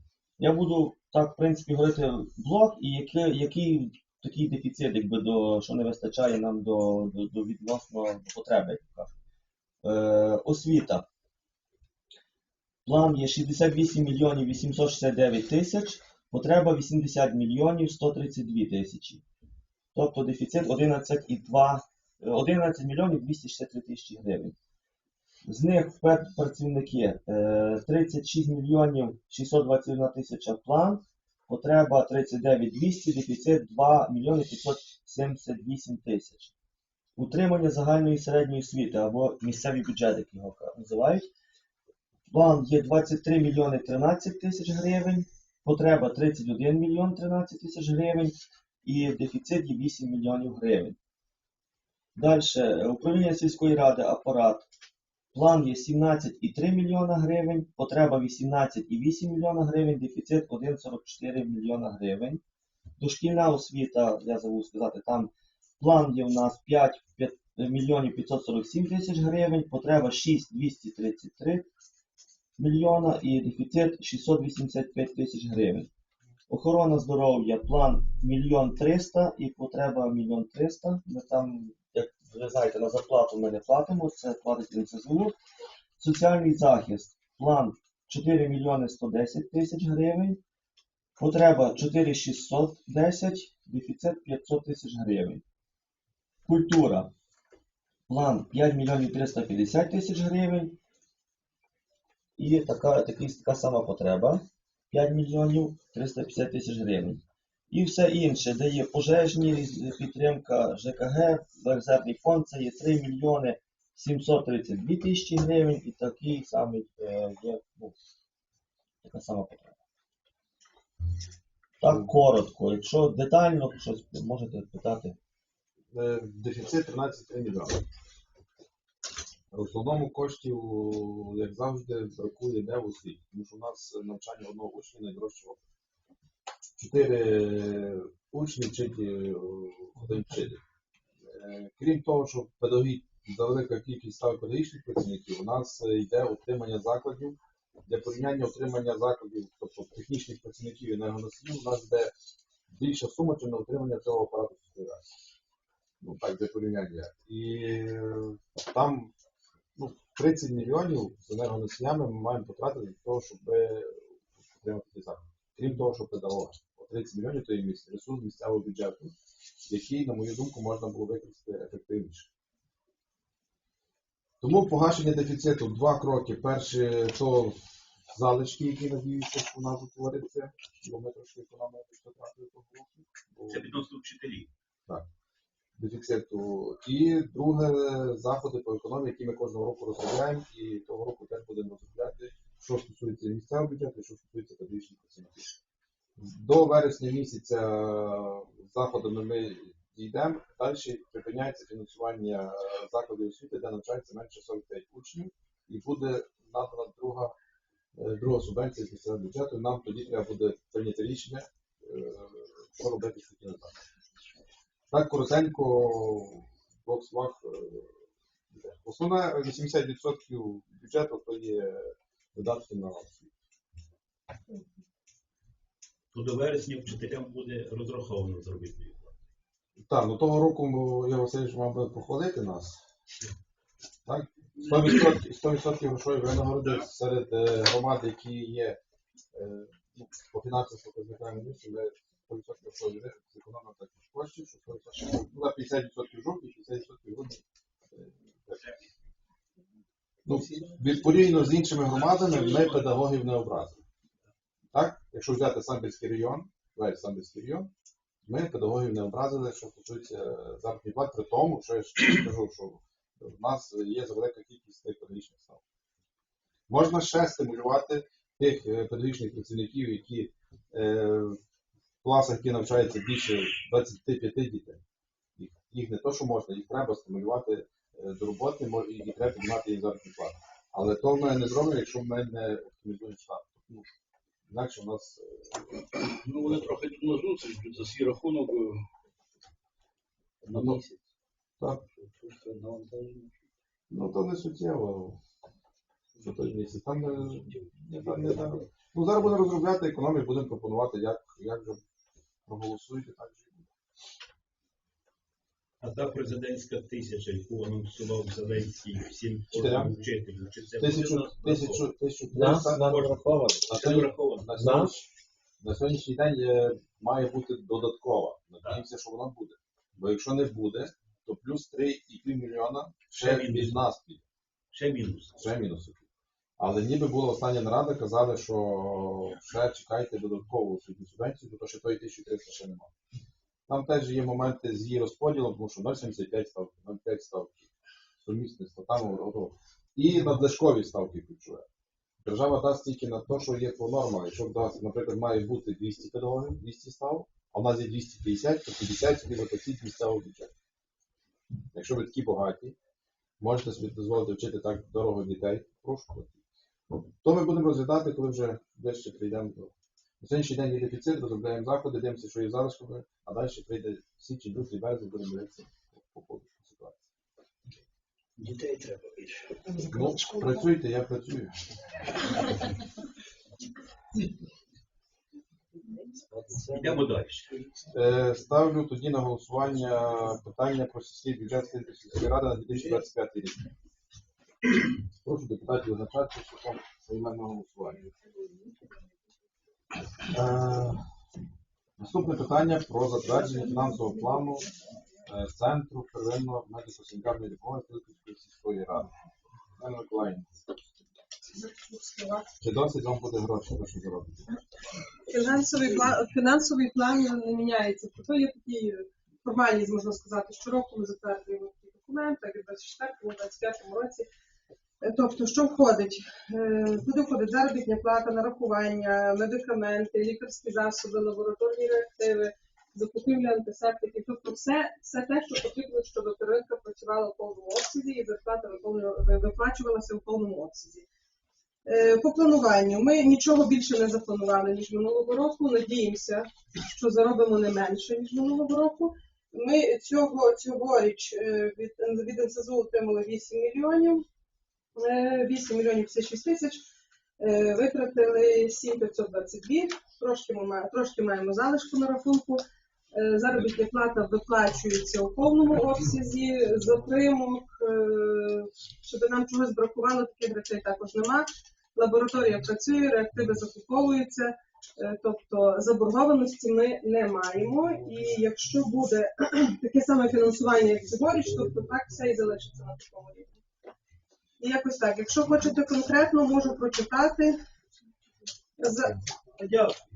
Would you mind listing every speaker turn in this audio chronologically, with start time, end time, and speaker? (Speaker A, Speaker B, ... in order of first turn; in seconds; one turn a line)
Speaker A: 0.4-9.1
Speaker A: 9.8-11.1
Speaker A: 12.8-19.2
Speaker A: 19.9-24.5
Speaker A: 25.4-36.5
Speaker A: 37.1-41.3
Speaker A: 42.3-51.0
Speaker A: 52.1-54.7
Speaker A: 55.3-62.4
Speaker A: 63.0-71.7
Speaker A: 72.6-75.9
Speaker A: 76.5-85.3
Speaker A: 86.0-90.4
Speaker A: 91.2-95.4
Speaker A: 96.4-97.1
Speaker A: 98.1-100.8
Speaker A: 102.4-117.9
Speaker A: 119.0-119.8
Speaker A: 121.8-125.2
Speaker B: 125.9-127.8
Speaker B: 129.5-135.6
Speaker B: 136.8-140.6
Speaker B: 141.2-152.1
Speaker B: 152.7-155.1
Speaker B: 156.0-159.1
Speaker B: 159.8-169.1
Speaker B: 169.6-172.3
Speaker B: 174.4-177.6
Speaker B: 178.1-183.8
Speaker C: 183.5-184.5
Speaker B: 185.8-195.6
Speaker B: 196.2-207.3
Speaker B: 207.9-213.8
Speaker B: 214.9-218.0
Speaker B: 218.5-223.3
Speaker C: 226.1-229.2
Speaker B: 229.8-232.8
Speaker B: 234.0-238.8
Speaker B: 239.3-248.6
Speaker B: 250.2-253.8
Speaker C: 252.0-252.8
Speaker B: 254.7-257.7
Speaker B: 258.2-265.6
Speaker B: 266.7-271.4
Speaker B: 272.0-274.8
Speaker B: 275.4-283.9
Speaker B: 284.5-285.9
Speaker D: 286.1-288.8
Speaker D: 290.4-291.0
Speaker B: 290.5-290.8
Speaker D: 291.9-293.4
Speaker B: 293.9-295.2
Speaker D: 296.1-298.7
Speaker B: 296.2-301.8
Speaker B: 302.5-303.7
Speaker C: 305.8-311.9
Speaker B: 309.5-310.0
Speaker B: 310.8-313.1
Speaker A: 312.3-313.7
Speaker C: 313.7-314.5
Speaker B: 313.7-315.1
Speaker A: 314.6-314.9
Speaker B: 315.6-324.2
Speaker C: 323.1-323.9
Speaker C: 324.7-325.4
Speaker B: 325.3-326.0
Speaker B: 326.6-332.9
Speaker B: 333.7-337.7
Speaker B: 338.2-341.6
Speaker B: 342.2-350.5
Speaker B: 351.7-352.7
Speaker B: 353.4-356.4
Speaker B: 357.2-367.0
Speaker D: 368.4-369.7
Speaker B: 369.9-371.5
Speaker D: 376.0-377.9
Speaker C: 376.7-377.5
Speaker B: 377.9-383.6
Speaker B: 385.2-388.0
Speaker B: 390.3-391.0
Speaker B: 392.0-394.7
Speaker B: 395.2-399.1
Speaker B: 399.8-400.5
Speaker E: 401.5-402.5
Speaker B: 402.6-404.6
Speaker E: 405.3-414.3
Speaker E: 415.0-431.0
Speaker E: 431.9-444.2
Speaker E: 444.9-446.8
Speaker E: 447.4-452.6
Speaker E: 453.1-473.6
Speaker E: 474.6-477.6
Speaker E: 478.8-479.1
Speaker C: 479.5-480.0